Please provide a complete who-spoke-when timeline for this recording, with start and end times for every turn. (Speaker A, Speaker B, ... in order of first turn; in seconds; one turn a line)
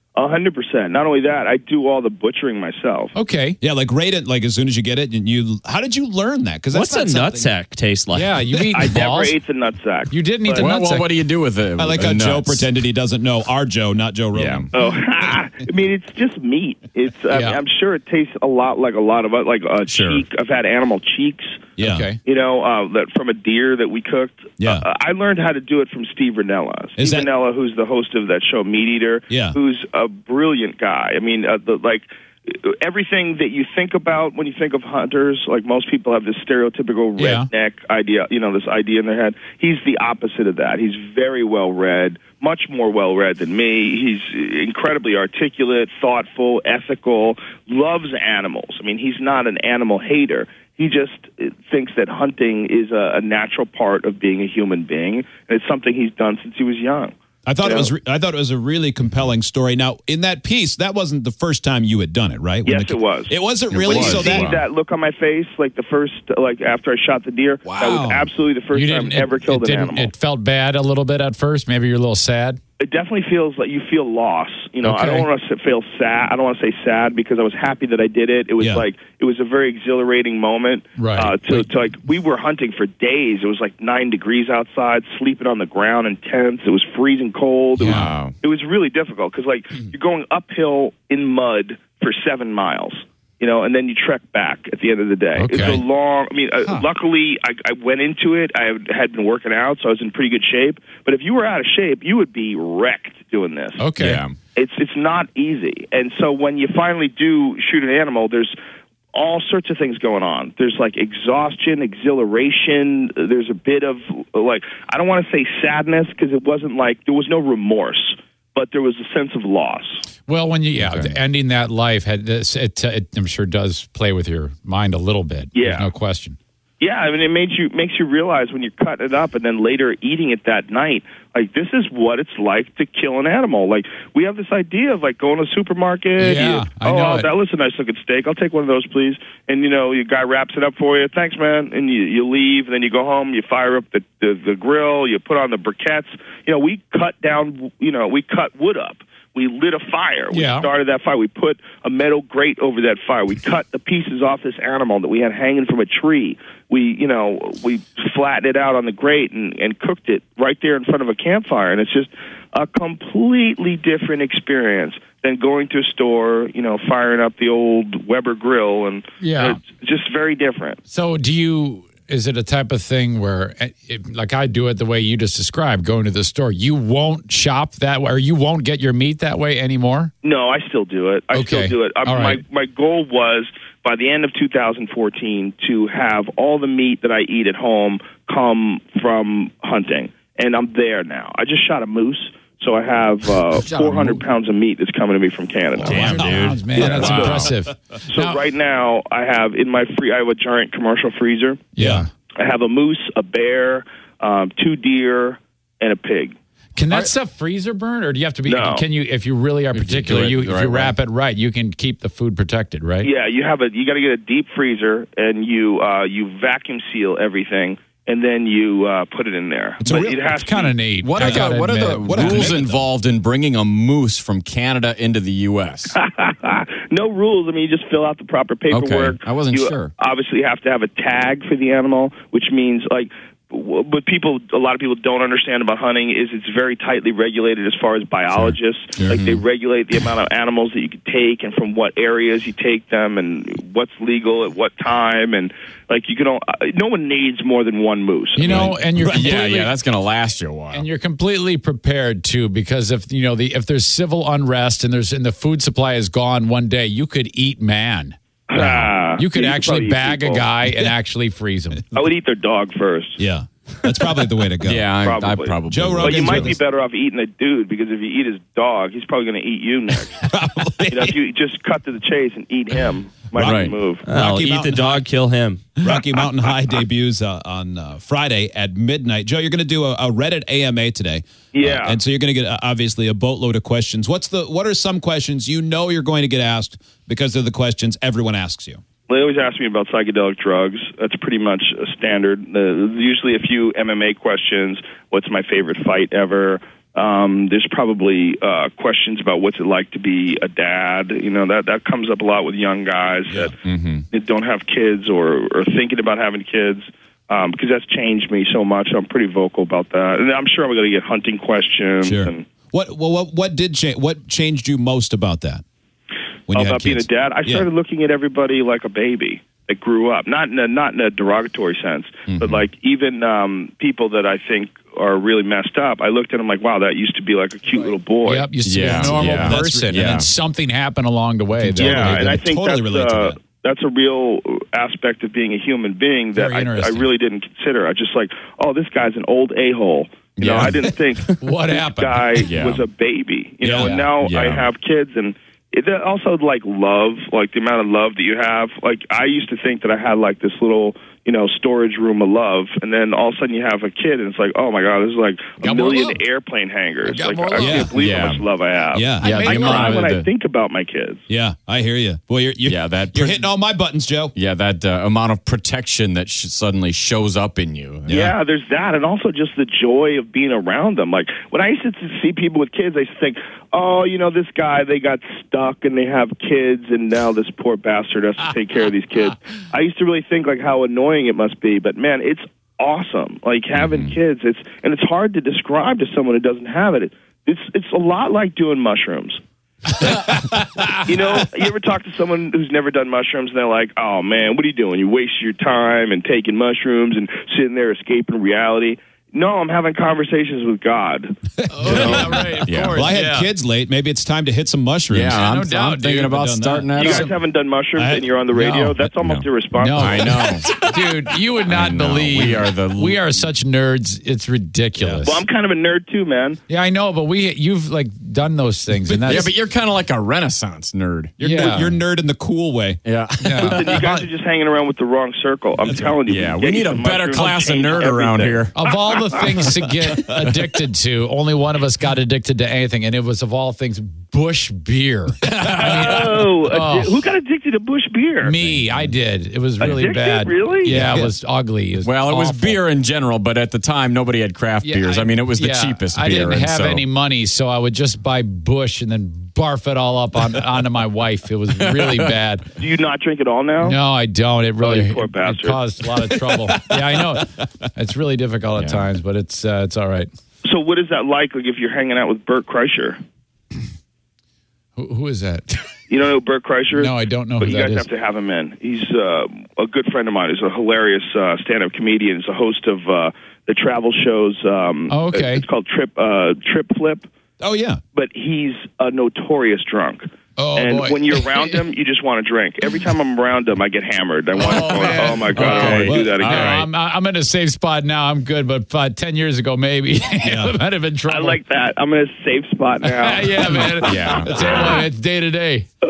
Speaker A: 0.1-3.1
Speaker B: 3.1-3.6
Speaker C: 3.6-7.5
Speaker D: 6.7-8.4
Speaker B: 8.1-9.4
Speaker A: 8.7-10.7
Speaker B: 10.1-11.1
Speaker E: 10.5-12.7
Speaker C: 11.8-14.7
Speaker E: 14.3-14.7
Speaker A: 14.7-21.7
Speaker B: 17.3-17.6
Speaker E: 19.9-20.2
Speaker C: 21.8-22.1
Speaker B: 21.8-22.2
Speaker A: 22.2-57.9
Speaker C: 24.6-24.8
Speaker C: 27.0-27.3
Speaker C: 29.3-29.6
Speaker B: 37.2-37.5
Speaker C: 57.5-64.5
Speaker A: 62.6-70.1
Speaker E: 63.7-64.6
Speaker C: 67.7-68.3
Speaker B: 68.7-72.6
Speaker A: 72.8-103.8
Speaker B: 74.8-75.3
Speaker C: 78.6-78.8
Speaker B: 81.0-81.7
Speaker B: 87.8-88.1
Speaker E: 87.8-88.3
Speaker B: 95.4-95.8
Speaker B: 103.8-104.2
Speaker E: 104.0-104.3
Speaker A: 104.5-108.6
Speaker A: 109.1-120.0
Speaker B: 120.2-126.4
Speaker A: 125.5-125.9
Speaker A: 126.8-170.8
Speaker B: 136.2-137.3
Speaker B: 150.3-150.7
Speaker B: 169.2-169.6
Speaker B: 170.9-180.1
Speaker A: 180.2-197.5
Speaker B: 181.3-182.4
Speaker B: 193.6-194.2
Speaker C: 195.8-197.5
Speaker B: 195.8-198.4
Speaker D: 195.9-197.1
Speaker A: 198.1-201.7
Speaker B: 201.8-202.1
Speaker C: 201.8-202.1
Speaker A: 202.3-206.3
Speaker B: 206.8-213.1
Speaker A: 208.4-208.8
Speaker E: 209.7-210.9
Speaker A: 213.0-220.8
Speaker C: 219.8-220.2
Speaker B: 220.3-222.8
Speaker E: 221.0-225.9
Speaker C: 222.1-222.6
Speaker A: 225.9-248.7
Speaker E: 228.7-229.9
Speaker E: 239.0-239.4
Speaker B: 248.3-249.7
Speaker E: 248.4-250.9
Speaker C: 249.0-249.3
Speaker B: 250.7-261.8
Speaker A: 258.5-260.5
Speaker A: 261.9-263.2
Speaker C: 263.2-264.9
Speaker E: 264.6-266.6
Speaker A: 265.0-270.2
Speaker C: 265.7-266.6
Speaker C: 270.0-271.1
Speaker A: 270.9-274.0
Speaker C: 273.4-275.1
Speaker E: 273.4-273.8
Speaker D: 273.9-275.9
Speaker C: 275.8-288.8
Speaker A: 281.5-282.0
Speaker A: 289.1-303.5
Speaker E: 303.6-304.0
Speaker A: 304.1-312.4
Speaker C: 312.0-315.6
Speaker C: 316.5-317.7
Speaker A: 316.5-329.2
Speaker E: 322.3-322.6
Speaker B: 328.2-332.3
Speaker E: 328.6-330.3
Speaker C: 329.2-330.1
Speaker C: 331.6-333.4
Speaker A: 331.8-361.2
Speaker B: 336.3-337.1
Speaker E: 340.4-340.8
Speaker B: 341.4-342.4
Speaker E: 342.4-342.9
Speaker C: 343.6-344.0
Speaker E: 343.7-344.7
Speaker B: 355.6-356.2
Speaker B: 357.0-357.9
Speaker C: 357.6-357.9
Speaker E: 357.9-358.4
Speaker C: 358.9-359.6
Speaker B: 359.2-360.0
Speaker E: 359.2-360.3
Speaker C: 361.3-364.3
Speaker E: 362.6-363.4
Speaker E: 364.3-368.3
Speaker C: 368.1-368.3
Speaker A: 368.1-389.4
Speaker E: 383.7-384.1
Speaker A: 391.0-402.4
Speaker C: 401.6-405.4
Speaker B: 401.7-403.5
Speaker E: 402.7-403.0
Speaker E: 405.1-407.3
Speaker B: 405.3-406.4
Speaker C: 406.2-406.9
Speaker B: 406.9-407.3
Speaker A: 406.9-410.6
Speaker C: 407.9-408.3
Speaker B: 408.5-408.9
Speaker E: 409.2-410.7
Speaker B: 409.7-415.4
Speaker E: 411.6-413.2
Speaker E: 415.0-415.4
Speaker A: 415.2-416.6
Speaker B: 416.7-419.5
Speaker E: 419.1-421.3
Speaker C: 421.4-423.0
Speaker B: 421.4-421.9
Speaker E: 423.0-423.9
Speaker B: 423.4-424.2
Speaker A: 423.6-429.6
Speaker E: 426.2-428.7
Speaker B: 428.7-437.1
Speaker E: 435.4-436.2
Speaker A: 435.7-438.6
Speaker B: 438.4-442.8
Speaker A: 439.8-441.0
Speaker C: 440.9-441.3
Speaker E: 442.0-447.0
Speaker B: 444.8-452.6
Speaker E: 451.7-452.3
Speaker A: 452.8-454.0
Speaker B: 453.8-460.3
Speaker A: 454.8-455.8
Speaker E: 458.8-459.0
Speaker A: 460.6-463.2
Speaker B: 464.9-465.8
Speaker A: 466.1-477.3
Speaker B: 466.9-468.1
Speaker B: 475.1-475.6
Speaker C: 477.6-478.0
Speaker A: 478.1-486.9
Speaker B: 480.6-481.8
Speaker E: 484.6-486.9
Speaker B: 484.9-491.6
Speaker C: 485.8-486.3
Speaker C: 490.4-490.8
Speaker A: 491.3-495.0
Speaker B: 493.0-495.9
Speaker E: 493.8-494.8